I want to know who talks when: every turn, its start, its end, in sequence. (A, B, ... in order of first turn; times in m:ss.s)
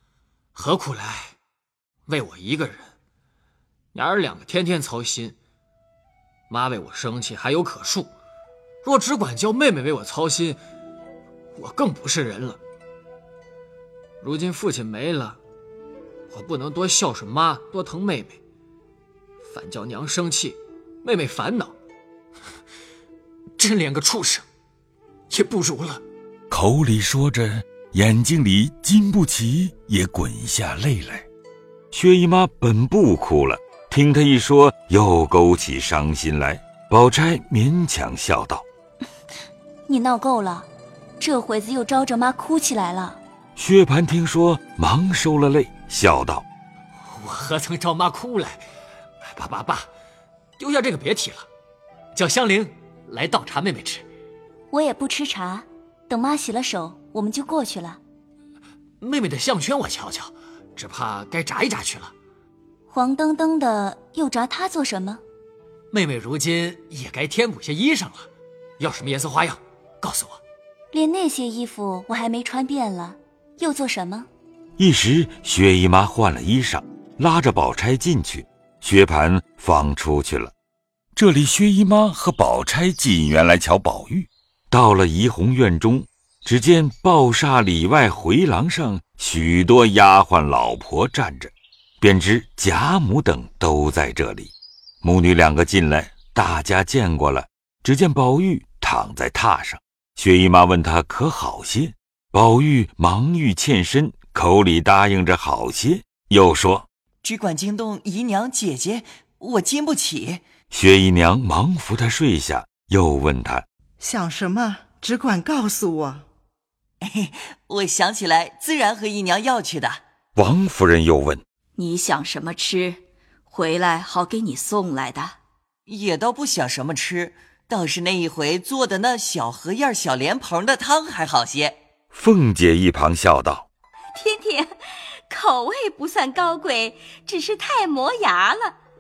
0:00.5-0:01.4 A
0:02.1-0:02.9 A
0:03.9-0:05.4 A
0:06.5-0:08.1 A
0:08.8-0:10.6 A
0:11.6-0:12.6 A
0:14.2-0:15.4 A
0:16.3-0:18.4 A
0:19.4-0:21.7 A
0:23.6-0:24.4 A
0:25.3-0:26.0 A
0:26.5-0:31.3 B
0:31.9-0:38.6 B
0:39.9-0:40.7 C
0:41.2-0:43.2 C
0:43.6-0:46.5 B
0:47.0-0:48.6 A
0:49.3-0:49.9 A
0:50.6-0:51.5 A
0:52.1-0:54.1 A
0:54.7-0:58.0 C
0:59.0-1:02.1 A
1:02.9-1:05.2 C
1:05.9-1:08.3 A
1:08.8-1:10.4 A
1:10.9-1:14.3 C
1:14.8-1:20.5 B
1:21.2-1:46.9 B
1:47.2-1:50.4 D
1:50.7-1:53.7 B
1:54.0-1:56.2 E
1:57.0-2:00.0 D
2:00.4-2:01.4 B
2:01.8-2:03.0 F
2:03.5-2:05.4 F
2:05.9-2:11.8 D
2:12.1-2:13.7 B
2:14.2-2:14.7 F
2:15.3-2:18.7 F